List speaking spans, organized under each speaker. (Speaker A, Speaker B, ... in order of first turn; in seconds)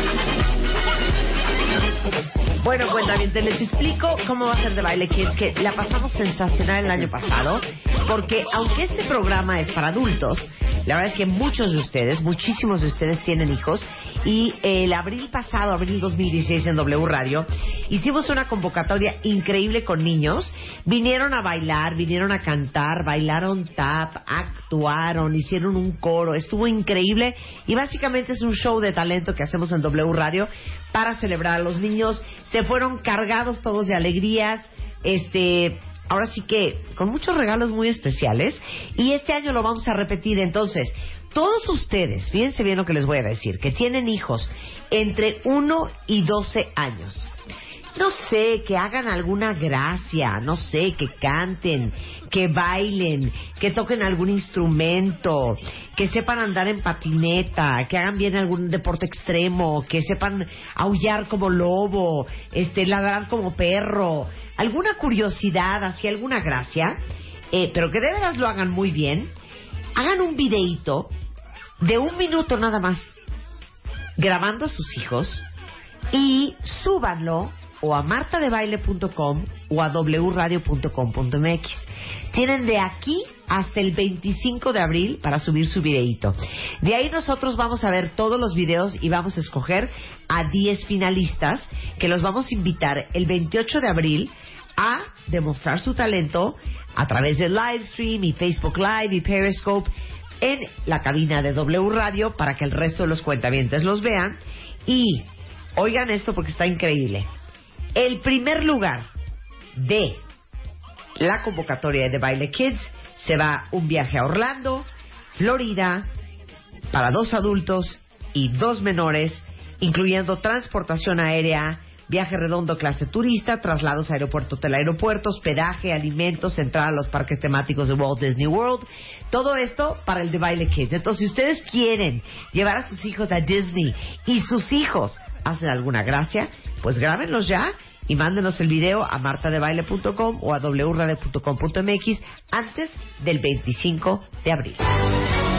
Speaker A: 2.6-47.3, 48.0-67.0, 67.5-69.3, 70.0-71.1, 71.8-73.2, 74.2-75.5, 76.1-107.3, 107.9-109.1, 109.7-110.2, 111.2-116.1, 116.9-144.8